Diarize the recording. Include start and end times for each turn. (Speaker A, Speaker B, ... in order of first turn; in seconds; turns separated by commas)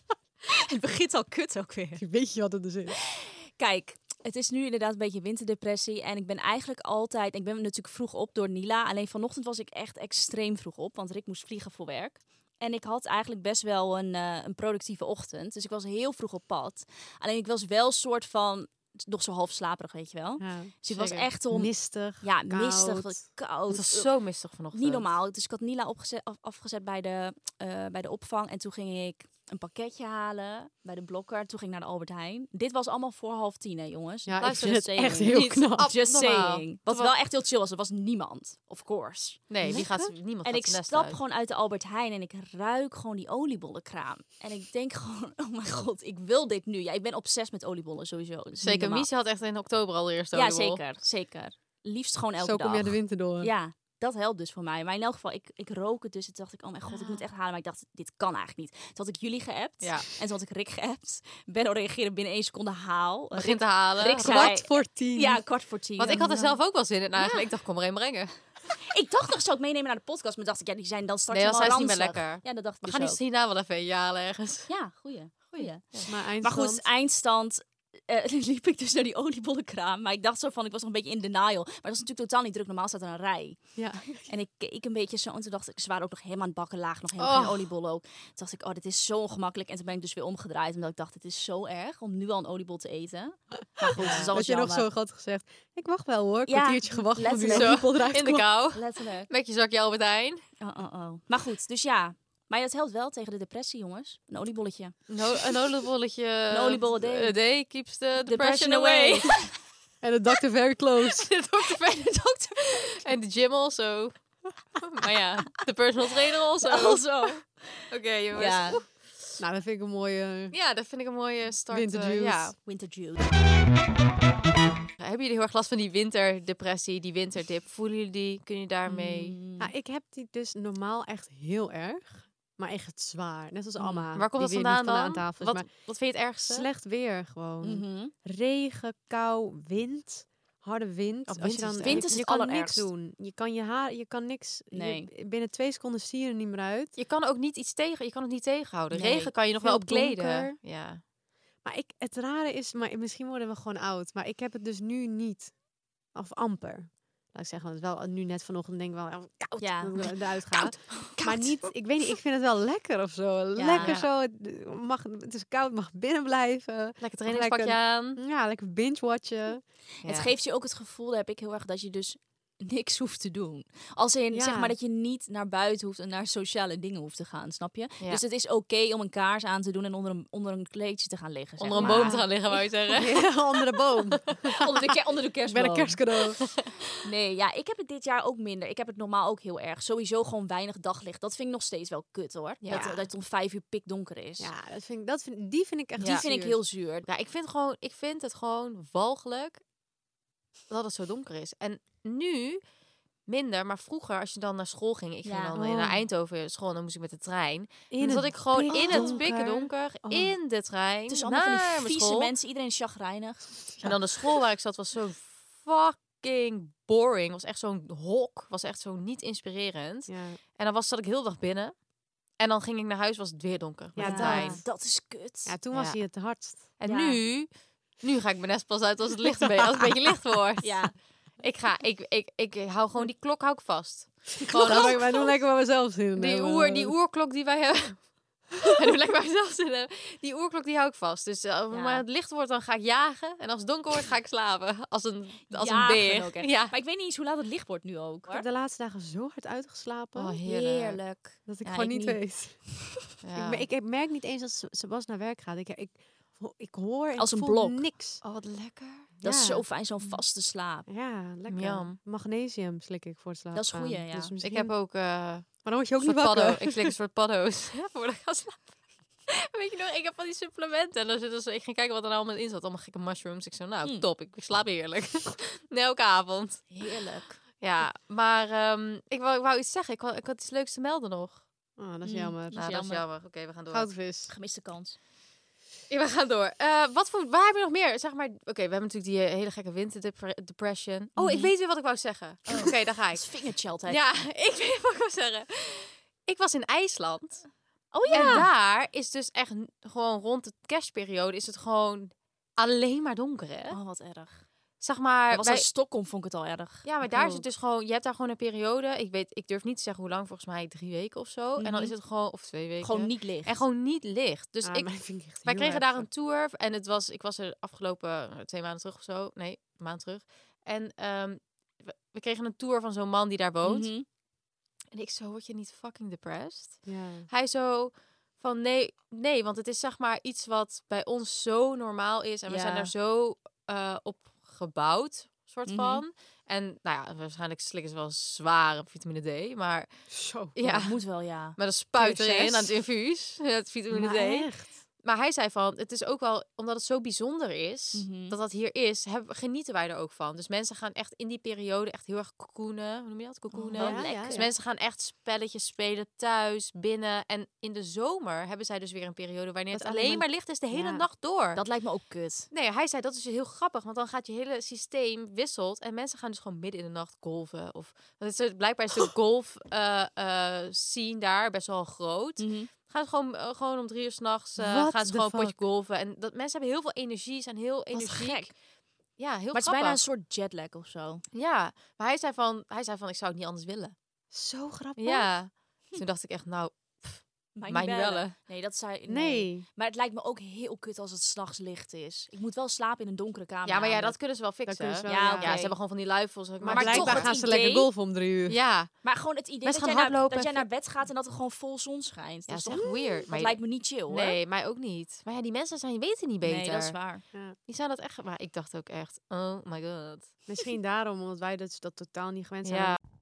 Speaker A: 0.5-2.0, Speaker B: 2.0-3.0, Speaker A: 3.1-24.1, Speaker B: 20.4-20.7, Speaker C: 20.9-21.3, Speaker B: 21.5-23.2, Speaker C: 23.7-25.0, Speaker A: 24.7-39.8, Speaker B: 34.2-36.5, Speaker C: 34.4-37.1, Speaker C: 39.5-41.2, Speaker B: 39.6-40.1, Speaker A: 40.4-49.1, Speaker C: 48.6-50.8, Speaker A: 50.3-66.3, Speaker B: 52.4-53.5, Speaker C: 56.9-57.2, Speaker C: 59.8-60.1, Speaker C: 63.4-64.5, Speaker B: 64.1-65.4, Speaker C: 66.0-68.3, Speaker B: 66.0-66.6, Speaker A: 67.2-67.5, Speaker A: 68.8-73.2, Speaker C: 71.3-74.7, Speaker A: 74.7-94.9, Speaker C: 75.5-76.1, Speaker B: 76.0-76.8, Speaker B: 83.8-84.3, Speaker C: 87.2-87.5, Speaker B: 93.8-98.5, Speaker C: 94.0-94.3, Speaker A: 96.5-97.8, Speaker C: 97.5-100.4, Speaker A: 98.7-99.3, Speaker A: 100.6-105.0, Speaker C: 105.1-109.4, Speaker A: 106.5-107.3, Speaker A: 108.2-109.5, Speaker B: 110.0-111.3, Speaker C: 111.2-114.1, Speaker C: 114.8-117.3, Speaker A: 116.6-118.8, Speaker C: 117.9-119.4, Speaker B: 119.4-120.5, Speaker C: 120.5-122.5, Speaker B: 121.7-122.5, Speaker A: 122.6-123.3, Speaker C: 125.0-129.3, Speaker A: 128.9-129.7, Speaker B: 129.6-135.7, Speaker A: 133.8-134.1, Speaker C: 134.2-136.7, Speaker B: 136.4-146.9, Speaker A: 137.6-138.1, Speaker C: 141.3-142.1, Speaker A: 141.8-142.9, Speaker A: 144.7-145.1, Speaker C: 146.9-151.0, Speaker B: 148.9-150.5, Speaker B: 151.6-155.5, Speaker B: 156.1-169.6, Speaker A: 159.6-161.5, Speaker A: 163.6-164.0, Speaker C: 163.8-164.1, Speaker C: 167.0-168.2, Speaker A: 170.0-182.5, Speaker C: 170.0-170.3, Speaker B: 174.3-174.7, Speaker C: 181.6-183.2, Speaker B: 181.7-182.3, Speaker B: 182.9-184.7, Speaker C: 183.7-184.2, Speaker A: 184.6-186.0, Speaker B: 185.5-186.4, Speaker A: 187.0-194.5, Speaker C: 192.6-193.0, Speaker B: 194.4-196.6, Speaker A: 196.0-197.1, Speaker C: 197.1-199.6, Speaker C: 200.7-202.6, Speaker C: 203.3-212.3, Speaker A: 205.2-205.6, Speaker B: 205.6-206.0, Speaker B: 207.9-210.3, Speaker A: 208.7-209.2, Speaker A: 211.1-213.7, Speaker C: 213.8-221.7, Speaker B: 220.1-220.4, Speaker C: 222.4-224.6, Speaker B: 223.9-224.7, Speaker A: 224.0-225.6, Speaker B: 225.4-226.6, Speaker C: 225.7-226.0, Speaker C: 226.8-230.7, Speaker A: 226.8-227.2, Speaker B: 229.4-229.9, Speaker A: 230.6-230.9, Speaker C: 231.4-235.2, Speaker A: 234.4-235.3, Speaker B: 234.4-236.9, Speaker C: 236.2-246.7, Speaker A: 241.7-242.0, Speaker A: 245.5-248.4, Speaker B: 248.3-250.4, Speaker C: 250.2-251.0, Speaker A: 250.4-252.2, Speaker B: 251.5-258.2, Speaker C: 253.2-253.7, Speaker A: 257.2-257.8, Speaker C: 258.2-259.1, Speaker B: 259.2-259.6, Speaker A: 259.2-260.9, Speaker B: 260.9-264.7, Speaker C: 261.5-262.0, Speaker A: 263.5-264.3, Speaker C: 264.4-268.7, Speaker B: 265.6-266.9, Speaker C: 269.3-276.7, Speaker A: 276.7-277.4, Speaker C: 277.6-281.4, Speaker B: 281.8-282.6, Speaker A: 282.0-283.0, Speaker C: 282.5-283.9, Speaker B: 283.7-284.3, Speaker A: 284.3-285.0, Speaker C: 285.9-293.2, Speaker A: 291.2-291.5, Speaker A: 292.5-294.0, Speaker C: 293.9-297.5, Speaker A: 297.9-298.5, Speaker B: 298.1-298.5, Speaker C: 298.1-303.8, Speaker A: 303.7-304.4, Speaker C: 304.8-305.6, Speaker A: 305.3-306.9, Speaker C: 306.8-323.9, Speaker B: 307.0-307.4, Speaker A: 311.6-311.9, Speaker A: 312.8-313.6, Speaker B: 314.6-316.1, Speaker A: 323.6-324.1, Speaker C: 324.9-339.9, Speaker B: 326.9-327.3, Speaker A: 332.5-332.9, Speaker A: 335.7-336.0, Speaker B: 340.1-340.8, Speaker C: 340.6-340.9, Speaker A: 340.8-341.6, Speaker C: 341.5-344.5, Speaker B: 342.0-342.7, Speaker B: 343.9-344.8, Speaker C: 345.0-361.6, Speaker A: 347.9-348.4, Speaker A: 353.5-354.4, Speaker B: 353.7-354.5, Speaker B: 359.7-361.0, Speaker A: 361.5-362.5, Speaker C: 362.5-378.5, Speaker A: 372.4-372.7, Speaker B: 374.6-375.6, Speaker A: 377.9-378.5, Speaker C: 379.2-380.0, Speaker A: 379.5-381.2, Speaker C: 381.3-383.9, Speaker B: 384.3-385.3, Speaker C: 385.0-388.3, Speaker A: 387.6-394.1, Speaker B: 389.1-389.6, Speaker C: 393.6-397.4, Speaker B: 394.7-395.6, Speaker A: 395.1-395.7, Speaker B: 396.6-398.6, Speaker A: 396.7-397.9, Speaker C: 398.5-398.9, Speaker A: 399.0-404.4, Speaker C: 399.6-400.6, Speaker C: 402.5-407.0, Speaker A: 406.4-407.2, Speaker C: 407.7-410.3, Speaker B: 410.5-413.0, Speaker C: 412.6-413.0